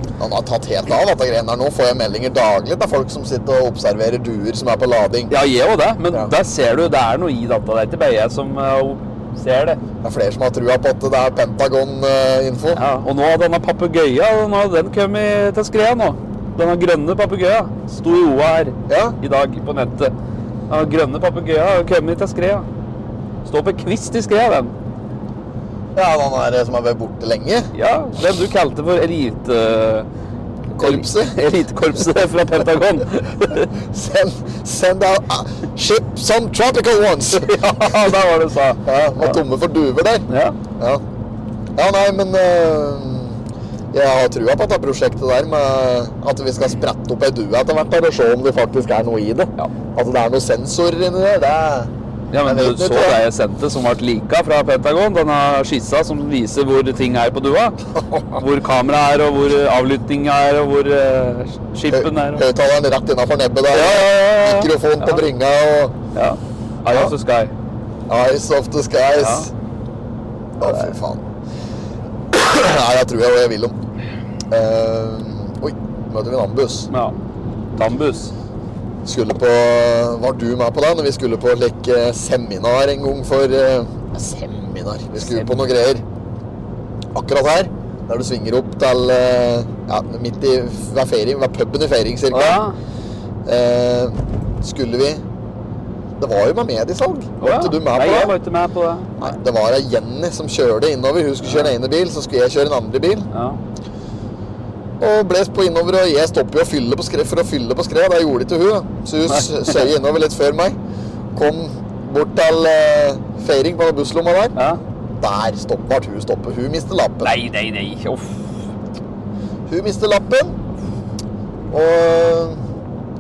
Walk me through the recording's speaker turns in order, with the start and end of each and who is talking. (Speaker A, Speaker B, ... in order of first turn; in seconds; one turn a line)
Speaker A: 0.2-5.3
Speaker B: 5.3-9.8
Speaker A: 10.0-12.8
Speaker B: 12.8-20.1
Speaker A: 18.9-19.2
Speaker B: 20.7-22.7
Speaker B: 23.4-24.7
Speaker A: 25.9-27.7
Speaker B: 27.8-30.1
Speaker A: 30.8-31.4
Speaker B: 30.8-33.7
Speaker A: 33.7-38.0
Speaker B: 37.3-39.4
Speaker A: 38.8-40.3
Speaker B: 40.3-40.6
Speaker A: 41.8-43.4
Speaker A: 43.9-51.9
Speaker B: 52.3-57.8
Speaker A: 52.5-53.2
Speaker A: 58.0-58.4
Speaker B: 58.4-62.4
Speaker A: 61.9-65.9
Speaker B: 63.7-65.2
Speaker B: 66.1-67.5
Speaker A: 66.9-67.1
Speaker A: 68.1-69.5
Speaker B: 69.2-69.5
Speaker A: 70.6-71.2
Speaker B: 70.6-70.9
Speaker A: 72.3-73.8
Speaker A: 74.5-76.9
Speaker B: 76.9-77.2
Speaker B: 77.8-78.3
Speaker A: 79.0-86.0
Speaker B: 85.2-85.5
Speaker A: 87.1-92.6
Speaker B: 92.3-92.8
Speaker A: 93.5-95.2
Speaker A: 96.2-98.3
Speaker B: 97.4-99.4
Speaker A: 99.2-103.3
Speaker B: 101.4-101.7
Speaker B: 103.3-103.6
Speaker A: 105.0-110.8
Speaker B: 109.3-109.9
Speaker A: 111.3-114.6
Speaker A: 115.2-117.4
Speaker B: 117.2-118.5
Speaker A: 119.7-120.6
Speaker A: 121.7-122.6